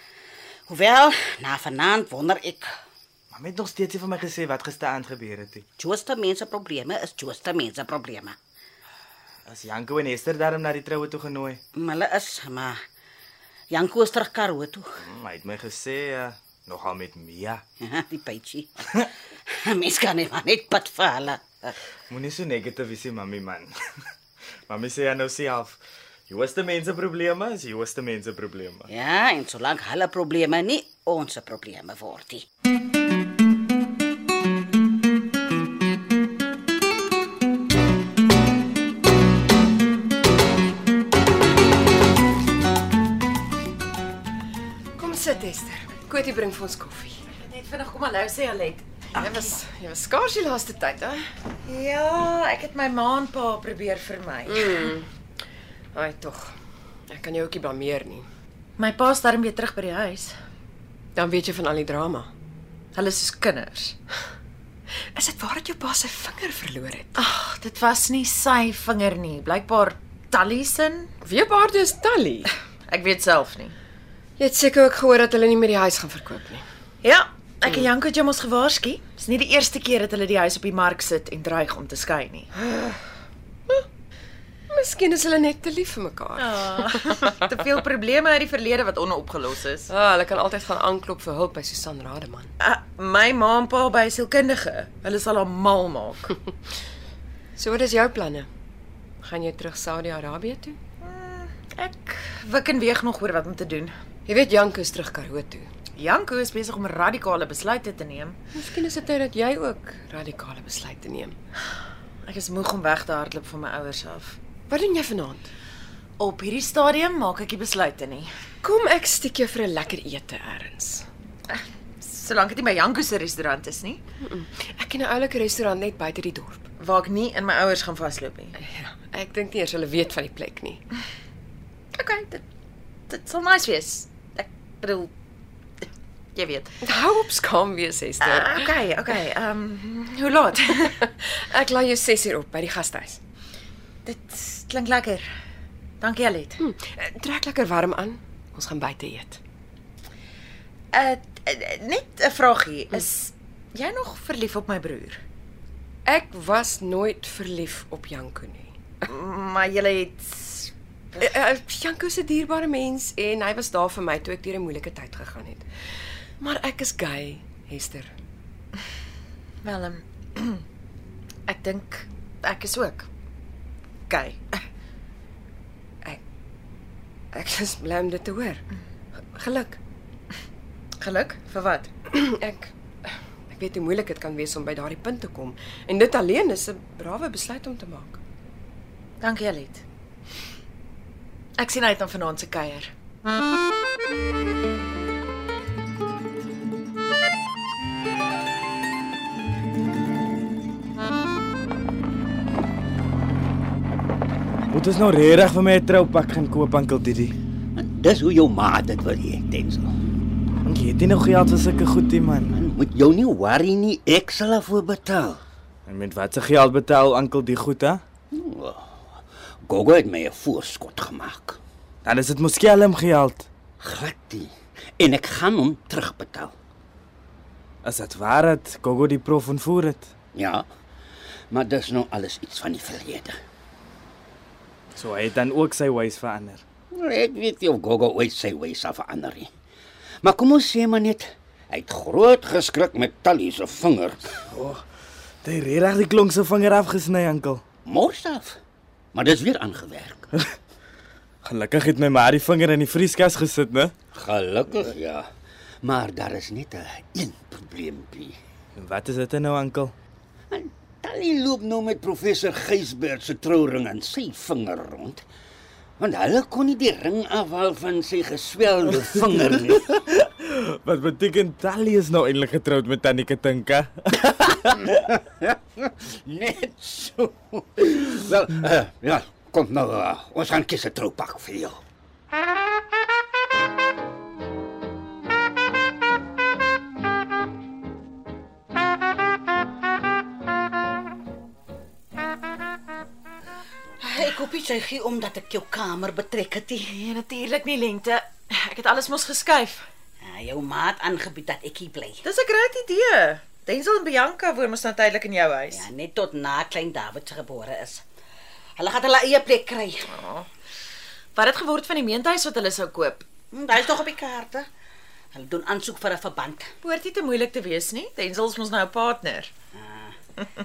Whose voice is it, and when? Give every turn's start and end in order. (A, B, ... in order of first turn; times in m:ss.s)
0:00.7-0:02.7 A
0:03.3-0:05.6 B
0:05.8-0:08.3 A
0:09.5-0:11.6 B
0:11.8-0:12.8 A
0:13.7-0:14.8 A
0:15.0-0:17.6 B
0:17.8-0:21.7 A
0:22.1-0:23.7 B
0:24.7-0:28.9 B
0:28.9-0:32.4 A
0:45.0-0:47.2 C
0:47.4-0:49.5 D
0:49.2-0:51.2 C
0:51.6-0:54.9 D
0:54.4-0:55.1 C
0:55.9-0:56.5 C
0:57.1-0:58.3 C
0:58.8-1:00.3 D
1:01.2-1:02.3 C
1:02.9-1:04.0 D
1:05.1-1:07.2 C
1:07.2-1:11.1 D
1:11.2-1:12.5 C
1:12.9-1:13.8 D
1:14.4-1:16.6 C
1:17.0-1:22.5 D
1:24.7-1:27.6 C
1:26.4-1:29.9 D
1:29.9-1:32.5 C
1:32.6-1:36.3 D
1:37.6-1:38.5 C
1:39.2-1:40.8 C
1:41.0-1:43.9 D
1:44.3-1:45.7 C
1:46.0-1:48.4 D
1:48.6-1:51.4 C
1:52.2-1:54.4 D
1:54.7-1:55.5 C
1:56.2-1:58.3 D
1:58.6-2:01.0 C
2:01.5-2:04.0 D
2:04.3-2:06.6 C
2:06.8-2:08.5 D
2:08.6-2:10.8 C
2:11.9-2:12.4 D
2:13.1-2:15.1 D
2:15.8-2:16.8 D
2:16.8-2:18.7 C
2:18.2-2:21.0 D
2:21.0-2:23.2 C
2:24.0-2:25.3 D
2:26.0-2:26.6 D
2:26.6-2:29.4 C
2:30.9-2:35.2 D
2:36.0-2:38.7 C
2:39.1-2:41.3 D
2:41.2-2:45.6 C
2:46.4-2:48.1 C
2:49.6-2:50.6 D
2:51.5-2:53.1 D
2:54.1-2:54.6 D
2:57.3-2:58.6 C
2:59.3-2:59.8 C
3:01.0-3:01.9 D
3:02.1-3:02.7 C
3:03.5-3:08.2 C
3:09.2-3:09.8 D
3:11.6-3:12.9 D
3:24.7-3:27.4 B
3:27.8-3:29.9 E
3:30.6-3:32.5 B
3:32.5-3:35.4 E
3:35.9-3:38.0 B
3:38.3-3:39.0 E
3:39.6-3:41.6 E
3:42.0-3:43.5 B
3:43.8-3:46.5 E
3:47.8-3:50.1 B
3:50.3-3:50.6 E
3:51.5-3:53.3 E
3:54.9-3:56.6 B
3:56.9-3:59.5 E
4:00.2-4:04.4 E
4:04.5-4:04.8 B
4:05.4-4:07.6 B
4:07.8-4:08.6 E
4:09.1-4:10.3 E
4:11.4-4:13.9 B
4:14.1-4:15.2 E
4:15.8-4:18.3 E
4:18.8-4:19.9 B
4:20.5-4:25.2 E
4:26.0-4:30.0 E
4:30.2-4:34.7 B
4:34.9-4:41.8 E
4:54.0-4:56.9 A
4:56.9-4:59.8 D
5:00.2-5:02.2 A
5:02.2-5:05.9 D
5:05.7-5:08.0 A
5:08.8-5:10.1 A
5:10.1-5:10.5 D
5:11.4-5:13.2 D
5:13.5-5:14.6 A
5:15.3-5:16.7 A
5:16.8-5:19.5 D
5:19.8-5:20.1 A